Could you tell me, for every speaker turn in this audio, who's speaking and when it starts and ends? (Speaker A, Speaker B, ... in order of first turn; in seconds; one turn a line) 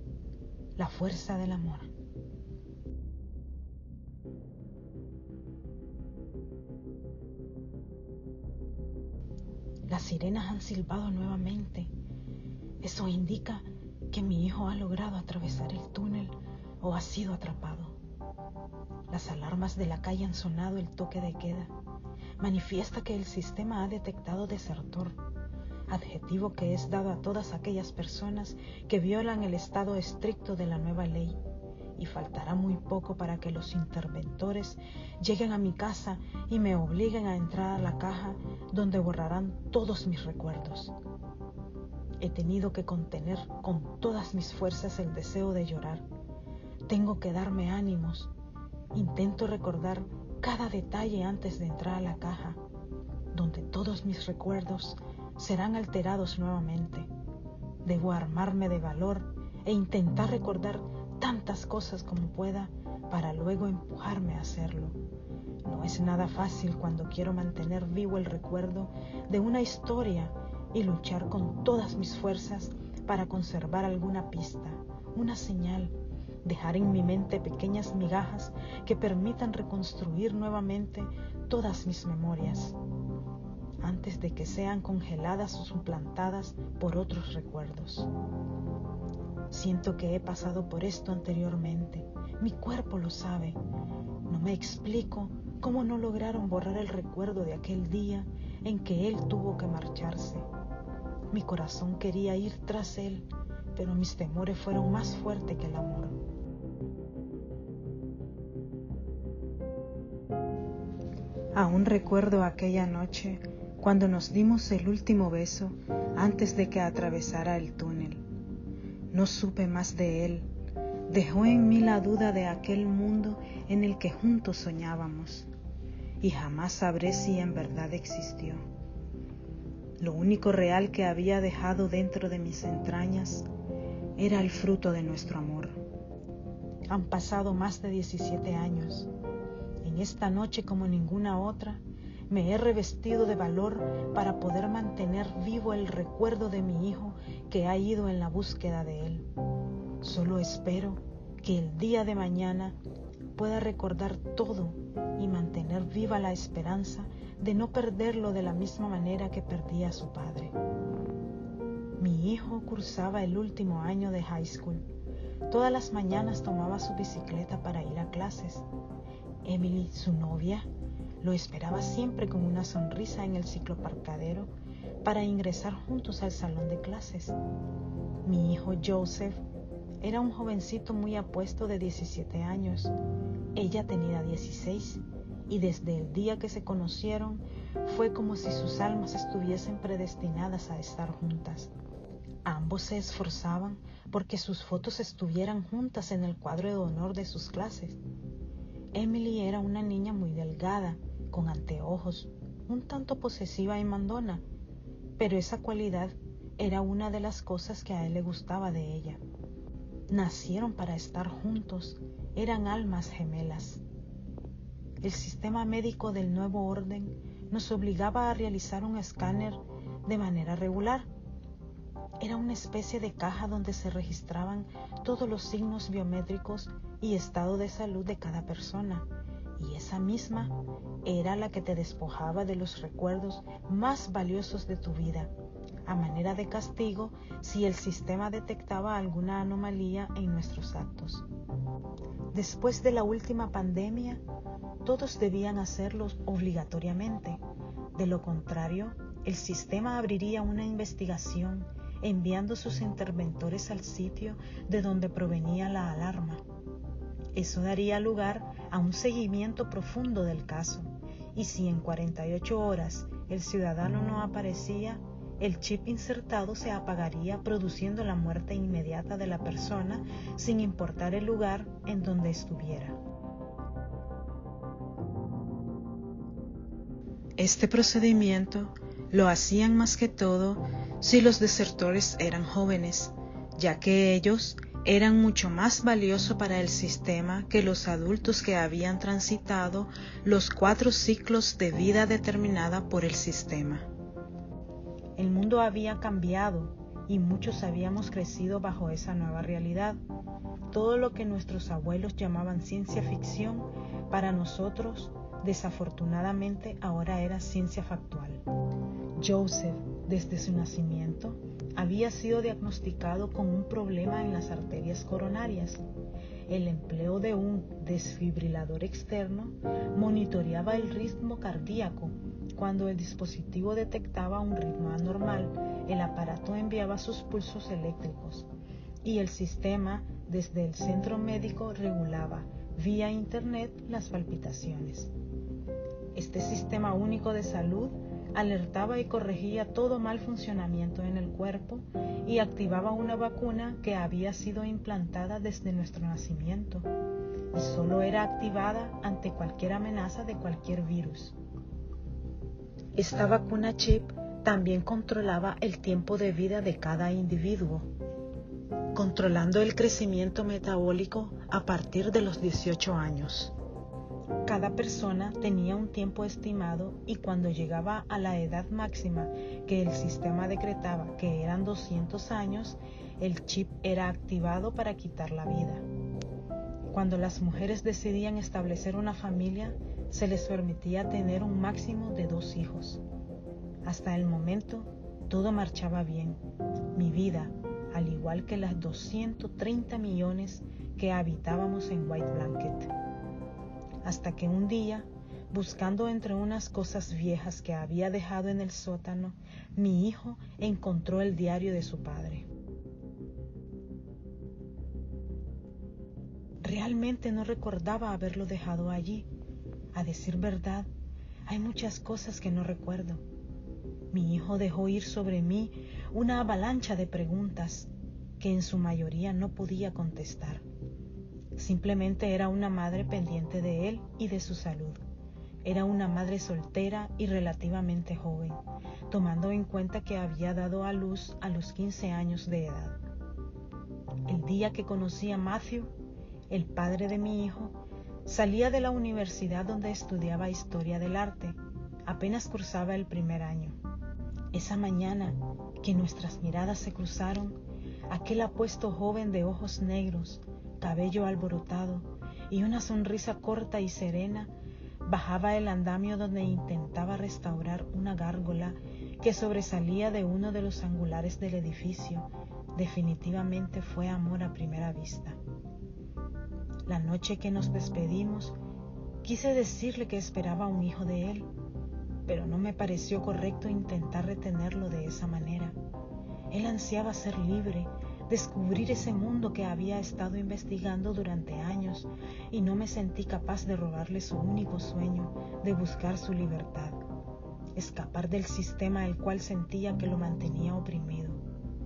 Speaker A: 0.8-1.9
Speaker A: 9.9-11.9
Speaker A: 12.8-17.9
Speaker A: 19.1-21.7
Speaker A: 22.4-25.2
Speaker A: 25.9-31.4
Speaker A: 31.9-40.9
Speaker A: 42.2-46.0
Speaker A: 46.9-48.3
Speaker A: 48.9-52.6
Speaker A: 53.3-57.1
Speaker A: 57.8-65.0
Speaker A: 65.6-82.8
Speaker A: 83.8-88.1
Speaker A: 89.5-93.6
Speaker A: 94.2-100.5
Speaker A: 101.3-106.2
Speaker A: 111.5-118.2
Speaker A: 119.1-120.5
Speaker A: 121.1-125.5
Speaker A: 126.2-128.6
Speaker A: 130.0-133.4
Speaker A: 134.2-135.8
Speaker A: 136.9-139.1
Speaker A: 139.8-149.2
Speaker A: 150.0-152.8
Speaker A: 153.3-160.5
Speaker A: 162.0-164.8
Speaker A: 165.5-168.7
Speaker A: 169.4-170.7
Speaker A: 171.2-174.5
Speaker A: 175.0-177.4
Speaker A: 178.2-179.4
Speaker A: 180.0-182.9
Speaker A: 183.5-191.7
Speaker A: 192.4-198.0
Speaker A: 198.9-204.4
Speaker A: 205.2-209.2
Speaker A: 210.1-213.8
Speaker A: 215.0-221.1
Speaker A: 222.2-229.1
Speaker A: 229.6-235.3
Speaker A: 235.8-241.2
Speaker A: 242.3-244.2
Speaker A: 244.8-247.4
Speaker A: 247.9-256.4
Speaker A: 257.3-273.0
Speaker A: 277.4-293.9
Speaker A: 295.1-300.0
Speaker A: 300.7-308.4
Speaker A: 309.1-315.8
Speaker A: 316.5-328.5
Speaker A: 329.0-335.1
Speaker A: 336.1-346.9
Speaker A: 347.5-351.4
Speaker A: 352.9-357.9
Speaker A: 358.9-363.5
Speaker A: 364.4-375.8
Speaker A: 376.9-383.0
Speaker A: 383.8-386.4
Speaker A: 386.9-392.9
Speaker A: 394.0-402.5
Speaker A: 406.6-409.3
Speaker A: 409.9-410.9
Speaker A: 411.5-413.2
Speaker A: 414.1-420.6
Speaker A: 421.5-425.0
Speaker A: 425.6-433.0
Speaker A: 434.2-435.9
Speaker A: 436.5-443.8
Speaker A: 444.5-447.6
Speaker A: 448.1-454.5
Speaker A: 455.0-465.4
Speaker A: 466.9-468.6
Speaker A: 469.2-471.5
Speaker A: 472.2-475.8
Speaker A: 476.5-487.0
Speaker A: 487.7-491.4